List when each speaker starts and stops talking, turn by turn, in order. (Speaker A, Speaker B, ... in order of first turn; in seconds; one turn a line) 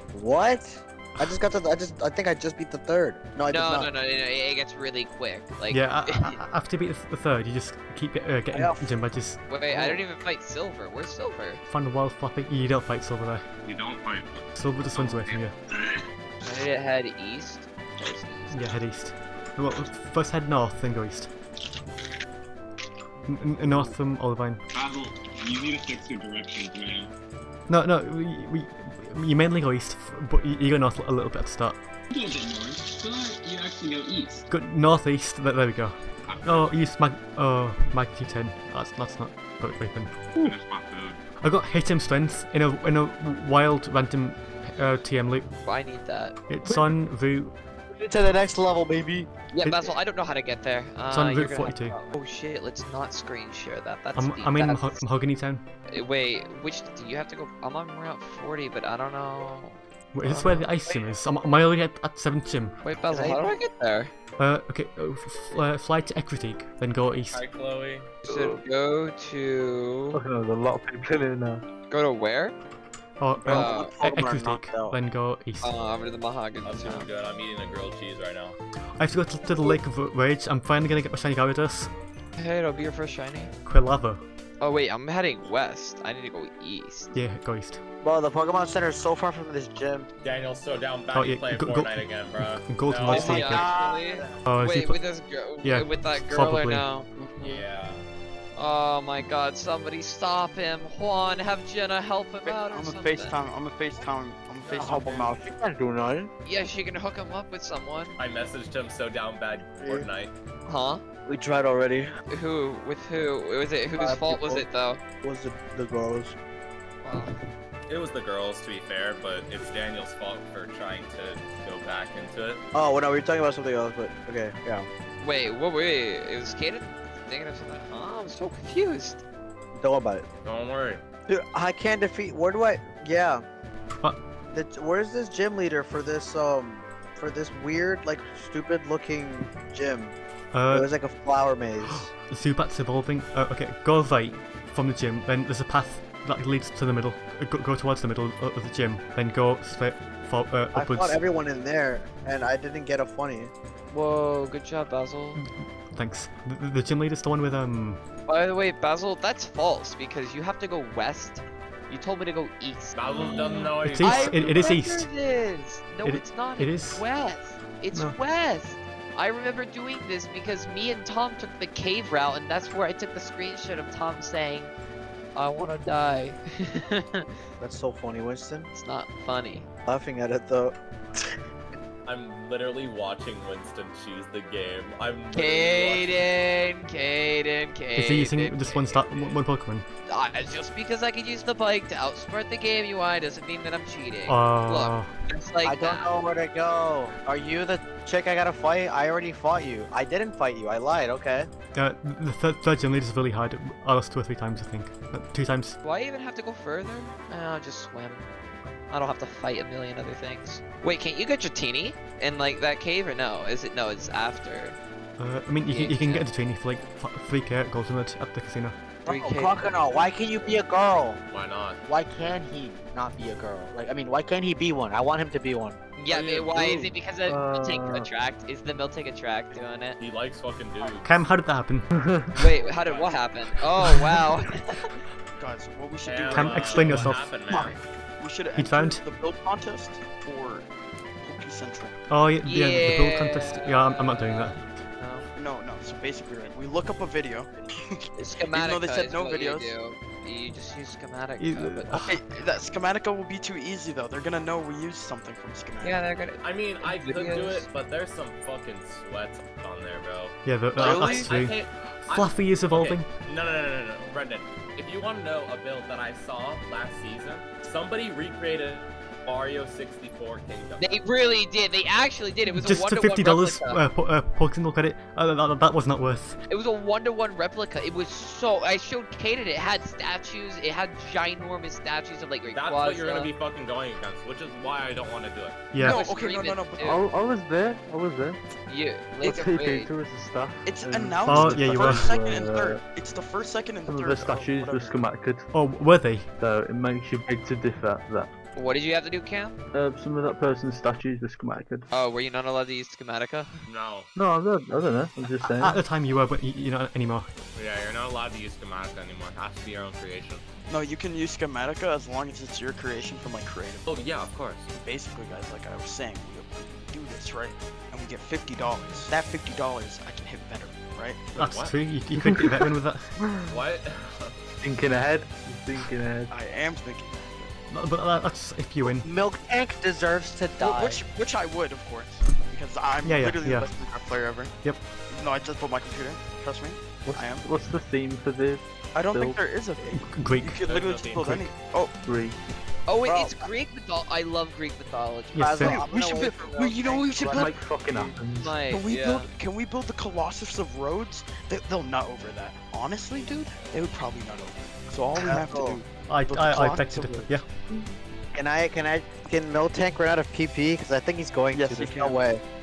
Speaker A: 0.1-3.9
Speaker B: 3.5-6.4
Speaker C: 5.7-9.4
Speaker A: 8.5-8.9
Speaker B: 9.5-11.6
Speaker C: 11.7-13.4
Speaker D: 13.6-16.0
Speaker C: 14.6-15.5
Speaker B: 16.4-18.7
Speaker C: 18.5-21.3
Speaker C: 23.3-24.6
Speaker D: 24.7-27.1
Speaker C: 27.7-31.8
Speaker D: 32.1-34.4
Speaker C: 34.5-40.5
Speaker D: 36.3-36.7
Speaker D: 40.4-41.2
Speaker C: 41.4-45.5
Speaker B: 45.6-46.4
Speaker C: 46.5-47.5
Speaker A: 47.9-49.3
Speaker B: 49.5-55.1
Speaker C: 49.6-49.9
Speaker C: 51.1-52.0
Speaker C: 54.1-55.6
Speaker B: 55.9-60.7
Speaker C: 60.1-62.8
Speaker B: 62.8-64.1
Speaker C: 64.4-67.4
Speaker E: 67.2-68.6
Speaker B: 68.2-70.2
Speaker F: 70.1-71.6
Speaker B: 71.9-72.5
Speaker C: 73.2-75.7
Speaker A: 73.4-75.0
Speaker B: 73.5-74.0
Speaker B: 75.6-77.1
Speaker E: 76.6-78.6
Speaker C: 79.0-81.9
Speaker B: 82.4-83.5
Speaker C: 83.7-84.2
Speaker B: 84.6-87.1
Speaker C: 87.1-87.8
Speaker A: 88.0-90.1
Speaker E: 90.2-93.5
Speaker C: 91.1-93.8
Speaker B: 93.1-97.1
Speaker G: 93.7-94.1
Speaker C: 94.5-95.0
Speaker C: 95.6-96.9
Speaker E: 97.5-98.0
Speaker B: 98.5-103.4
Speaker G: 102.4-105.4
Speaker A: 104.7-106.3
Speaker B: 106.4-108.1
Speaker E: 108.2-110.3
Speaker B: 110.7-111.0
Speaker A: 111.2-112.1
Speaker B: 112.3-115.0
Speaker A: 113.9-114.6
Speaker A: 115.2-116.3
Speaker B: 117.0-117.3
Speaker E: 117.9-122.6
Speaker A: 122.7-124.9
Speaker B: 125.2-129.2
Speaker A: 129.8-130.2
Speaker E: 130.4-131.0
Speaker A: 131.3-133.4
Speaker A: 134.5-140.2
Speaker C: 140.5-140.9
Speaker A: 140.7-142.1
Speaker C: 141.8-151.2
Speaker A: 150.7-153.5
Speaker B: 153.9-155.4
Speaker C: 155.4-158.0
Speaker B: 158.3-174.7
Speaker E: 162.9-164.7
Speaker C: 163.1-165.1
Speaker C: 166.0-167.0
Speaker B: 175.3-177.3
Speaker A: 177.6-178.7
Speaker B: 178.7-179.7
Speaker A: 179.8-181.3
Speaker E: 182.1-186.2
Speaker B: 185.3-189.3
Speaker C: 187.9-189.8
Speaker B: 190.1-196.1
Speaker C: 194.2-195.1
Speaker A: 195.6-201.5
Speaker C: 201.8-205.8
Speaker B: 205.8-208.3
Speaker B: 208.9-214.8
Speaker C: 215.2-218.8
Speaker B: 215.7-216.2
Speaker A: 219.0-221.2
Speaker B: 219.1-219.8
Speaker E: 221.3-221.8
Speaker A: 221.9-225.8
Speaker B: 226.0-230.0
Speaker E: 226.1-226.9
Speaker F: 227.2-228.1
Speaker E: 230.0-231.1
Speaker C: 231.0-231.9
Speaker F: 231.9-232.3
Speaker B: 232.3-235.0
Speaker G: 232.8-233.1
Speaker G: 235.4-236.9
Speaker E: 236.0-237.8
Speaker C: 236.3-237.7
Speaker G: 238.2-240.7
Speaker C: 238.5-239.0
Speaker G: 241.2-241.9
Speaker C: 242.1-244.8
Speaker B: 242.4-245.3
Speaker G: 245.3-249.8
Speaker B: 248.2-252.1
Speaker C: 251.4-252.2
Speaker G: 252.0-256.0
Speaker B: 255.8-257.7
Speaker E: 256.4-270.9
Speaker C: 260.4-263.1
Speaker B: 270.8-273.8
Speaker C: 272.5-276.4
Speaker B: 276.5-283.3
Speaker E: 282.5-285.6
Speaker C: 285.7-286.0
Speaker G: 285.8-287.0
Speaker B: 285.8-287.0
Speaker F: 286.8-288.4
Speaker B: 288.7-289.9
Speaker F: 289.2-292.8
Speaker G: 290.6-295.0
Speaker C: 291.3-292.1
Speaker F: 293.9-295.5
Speaker C: 295.5-296.3
Speaker F: 296.4-298.3
Speaker B: 298.5-299.6
Speaker F: 299.7-301.9
Speaker B: 301.9-303.6
Speaker E: 303.6-304.1
Speaker F: 304.1-305.8
Speaker C: 305.5-307.3
Speaker E: 307.5-310.4
Speaker G: 310.7-314.0
Speaker E: 313.9-314.7
Speaker G: 314.7-321.3
Speaker E: 321.3-321.8
Speaker C: 321.4-323.1
Speaker F: 322.1-323.5
Speaker E: 323.5-324.3
Speaker F: 324.6-326.3
Speaker G: 326.3-327.5
Speaker C: 327.7-329.1
Speaker A: 328.9-331.0
Speaker G: 330.6-334.5
Speaker C: 333.0-333.7
Speaker G: 335.1-337.5
Speaker F: 337.0-339.4
Speaker G: 338.9-341.9
Speaker C: 339.8-340.6
Speaker E: 340.6-341.3
Speaker C: 341.1-341.5
Speaker F: 342.0-342.4
Speaker B: 342.9-345.6
Speaker A: 343.0-343.4
Speaker C: 345.4-345.9
Speaker A: 345.4-347.4
Speaker G: 345.7-348.1
Speaker F: 347.2-348.6
Speaker B: 348.3-349.3
Speaker G: 348.7-357.3
Speaker A: 355.1-355.8
Speaker C: 356.1-357.5
Speaker A: 358.3-362.4
Speaker G: 361.5-362.3